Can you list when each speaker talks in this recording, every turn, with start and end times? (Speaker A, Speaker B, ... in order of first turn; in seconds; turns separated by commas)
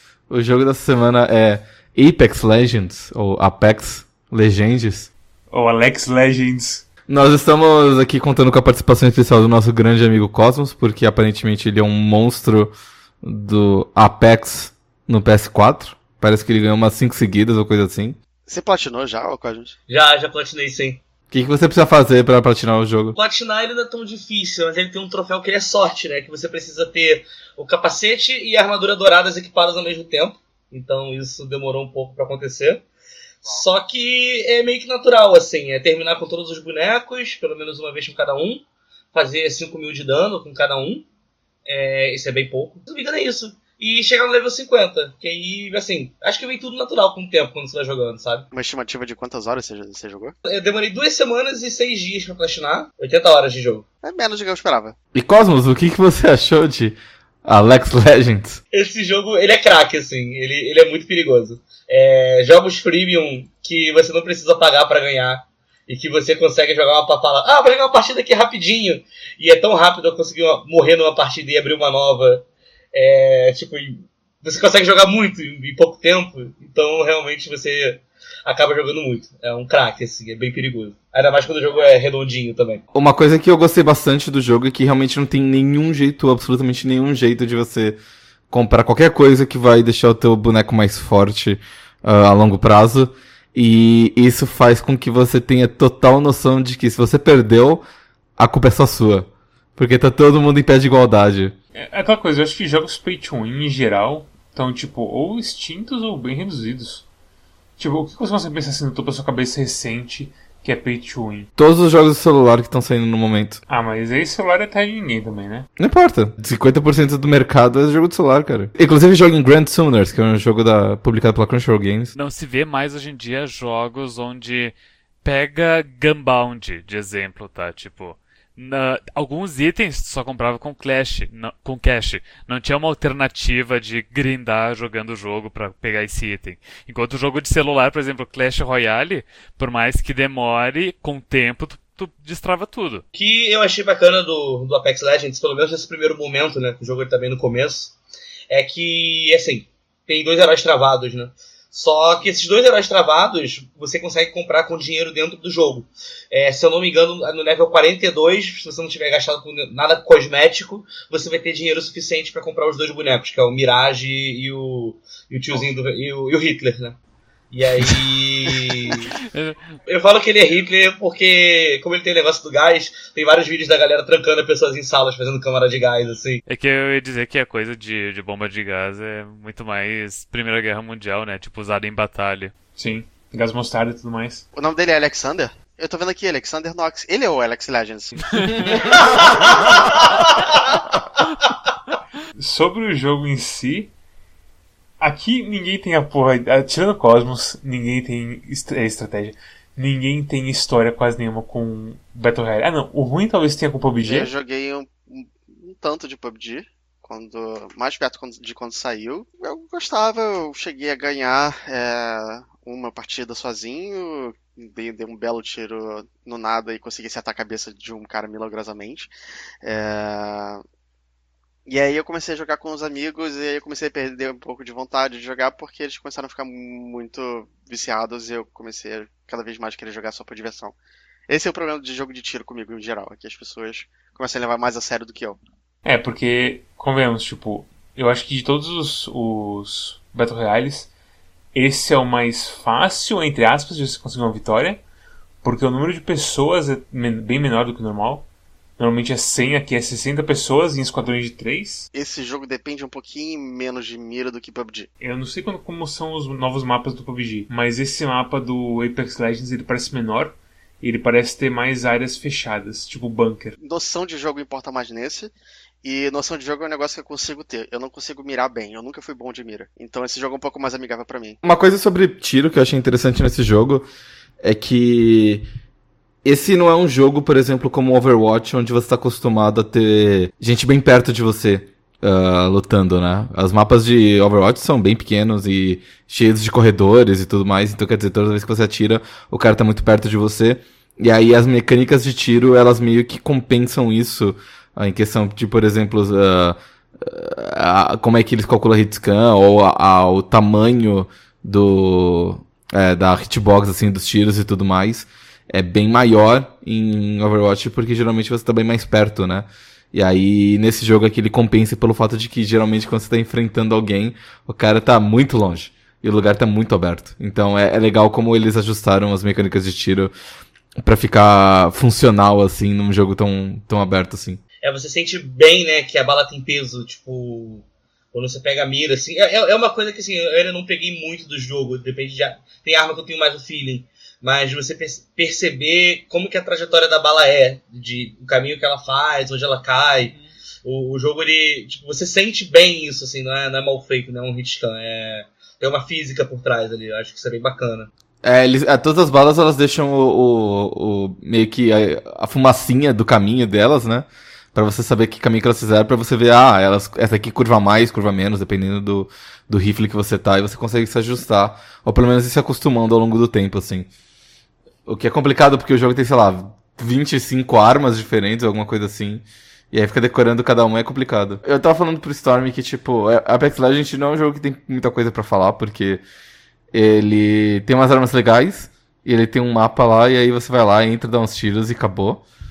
Speaker A: 0.3-5.1, Speaker B: 5.5-6.8, Speaker A: 7.1-12.7, Speaker A: 13.2-18.2, Speaker C: 18.5-19.8, Speaker D: 19.9-21.0, Speaker A: 21.3-23.2, Speaker D: 23.2-32.8, Speaker D: 33.4-41.0, Speaker D: 41.7-48.5, Speaker C: 48.5-50.4, Speaker D: 50.5-53.9, Speaker C: 54.0-55.0, Speaker A: 55.1-58.6, Speaker D: 58.7-82.8, Speaker A: 82.9-88.0, Speaker A: 88.5-97.8, Speaker A: 98.4-101.5, Speaker B: 101.8-107.1, Speaker B: 107.8-111.5, Speaker A: 111.6-113.6, Speaker B: 113.7-115.7, Speaker A: 115.8-122.1, Speaker E: 122.1-143.0, Speaker D: 143.2-147.9, Speaker D: 148.5-167.0, Speaker D: 167.5-169.1, Speaker E: 168.9-169.6, Speaker D: 169.9-176.4, Speaker E: 176.5-182.5, Speaker B: 182.8-184.4, Speaker C: 184.6-190.3, Speaker B: 192.4-193.9, Speaker B: 195.0-204.3, Speaker C: 204.0-219.1, Speaker C: 219.6-220.6, Speaker C: 221.7-230.8, Speaker C: 231.3-235.4, Speaker B: 235.8-240.9, Speaker B: 241.5-244.8, Speaker B: 245.4-248.3, Speaker B: 248.8-251.9, Speaker C: 251.9-254.9, Speaker B: 255.0-263.6, Speaker C: 263.6-271.4, Speaker A: 271.4-273.9, Speaker A: 274.4-275.4, Speaker A: 276.2-320.1, Speaker A: 320.8-324.4, Speaker D: 324.6-340.1, Speaker D: 340.6-347.9, Speaker A: 348.2-363.9, Speaker A: 364.9-376.0, Speaker A: 376.7-382.2